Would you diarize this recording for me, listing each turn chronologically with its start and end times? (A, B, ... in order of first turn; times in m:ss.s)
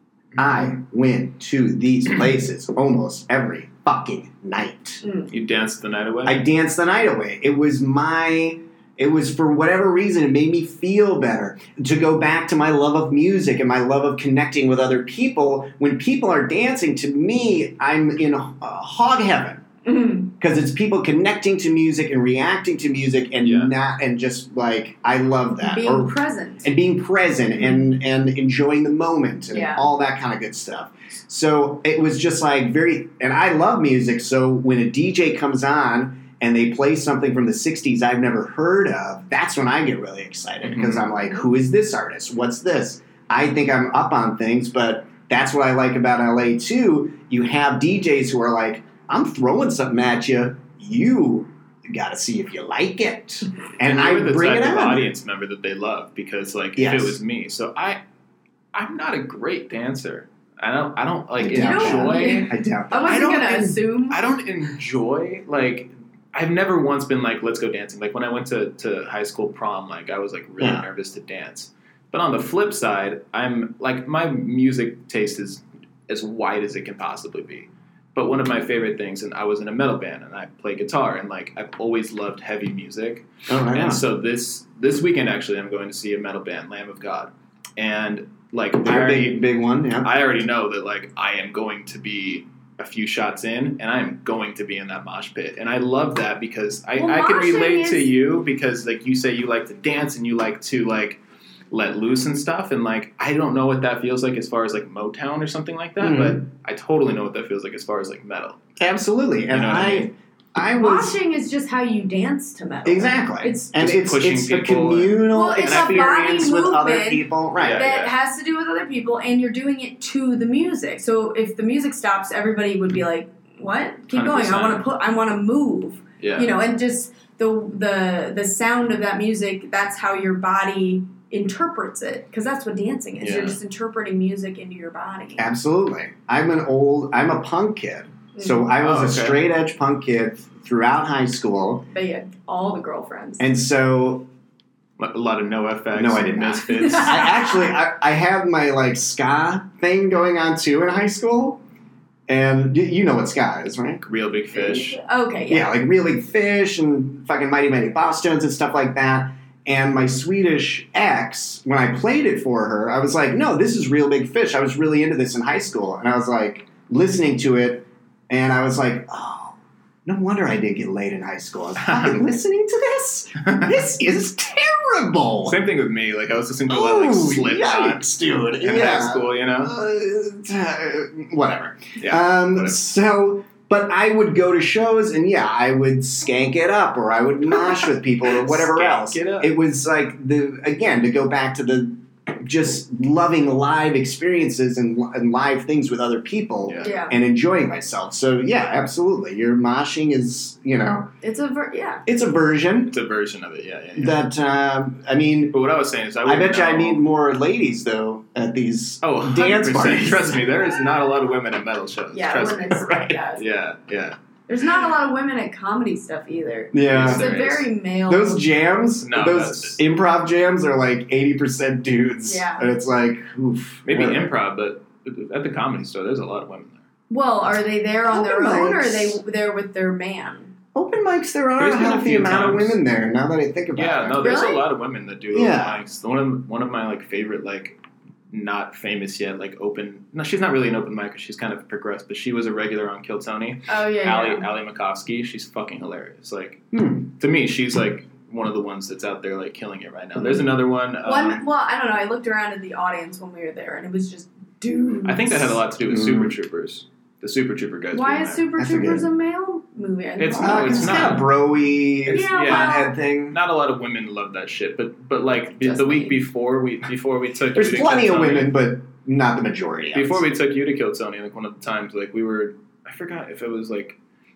0:00.4-0:05.0 A
0:05.0-0:05.3 B
0:05.3-0:06.4 C
0:06.2-0:19.6 A
0:19.8-0:20.3 B
0:20.4-0:55.1 A
0:23.4-0:23.7 C
0:25.5-0:26.7 B
0:29.5-0:29.9 B
0:40.6-0:41.0 C
0:53.8-0:58.0 C
0:56.8-0:57.2 A
0:58.7-1:29.4 C
1:01.4-1:03.5 A
1:01.5-1:04.2 B
1:10.6-1:10.8 A
1:23.5-1:24.0 A
1:28.8-1:30.2 A
1:30.0-1:48.6 C
1:37.0-1:38.1 B
1:46.0-1:46.4 A
1:48.8-1:51.2 A
1:49.5-1:50.1 C
1:50.8-1:53.7 B
1:52.8-1:57.9 A
1:53.8-1:56.0 C
1:55.3-2:15.4 B
1:57.6-1:58.1 C
2:04.1-2:04.8 C
2:06.2-2:06.6 C
2:13.2-2:13.6 C
2:15.4-2:21.9 A
2:18.4-2:18.7 B
2:18.8-2:19.4 C
2:21.9-2:23.5 B
2:23.4-2:24.3 A
2:25.0-2:27.4 C
2:25.9-2:31.6 A
2:26.8-2:27.7 B
2:32.3-2:34.0 A
2:34.0-2:35.0 C
2:34.5-2:35.7 B
2:35.5-2:55.6 A
2:51.8-2:52.2 C
2:53.4-2:53.8 C
2:55.4-2:59.7 C
2:56.7-3:21.1 A
3:02.0-3:02.8 C
3:08.2-3:09.5 C
3:16.7-3:17.0 C
3:16.8-3:17.2 B
3:21.2-3:22.0 B
3:22.1-3:23.0 A
3:22.9-3:24.2 C
3:24.0-3:25.6 A
3:25.5-3:27.0 C
3:26.2-3:30.6 A
3:29.0-3:34.2 C
3:32.1-3:33.4 B
3:34.5-3:38.4 B
3:36.7-3:37.3 A
3:36.9-3:37.7 C
3:38.1-3:44.3 A
3:39.0-3:39.8 C
3:42.2-3:42.7 B
3:43.8-3:46.8 C
3:47.1-3:50.5 B
3:48.1-3:49.2 A
3:50.8-3:54.4 A
3:51.6-3:52.8 C
3:53.8-3:57.8 C
3:54.2-3:54.6 B
3:55.3-3:55.8 A
3:58.3-4:11.4 C
4:03.7-4:04.5 B
4:06.7-4:07.1 A
4:11.0-4:15.6 B
4:15.0-4:18.5 C
4:15.9-4:16.3 A
4:17.9-4:21.2 B
4:18.6-4:19.0 A
4:20.2-4:21.3 C
4:20.4-4:23.4 A
4:22.1-4:28.6 C
4:22.1-4:23.0 B
4:25.5-4:26.2 B
4:27.6-4:30.2 A
4:29.9-4:34.0 C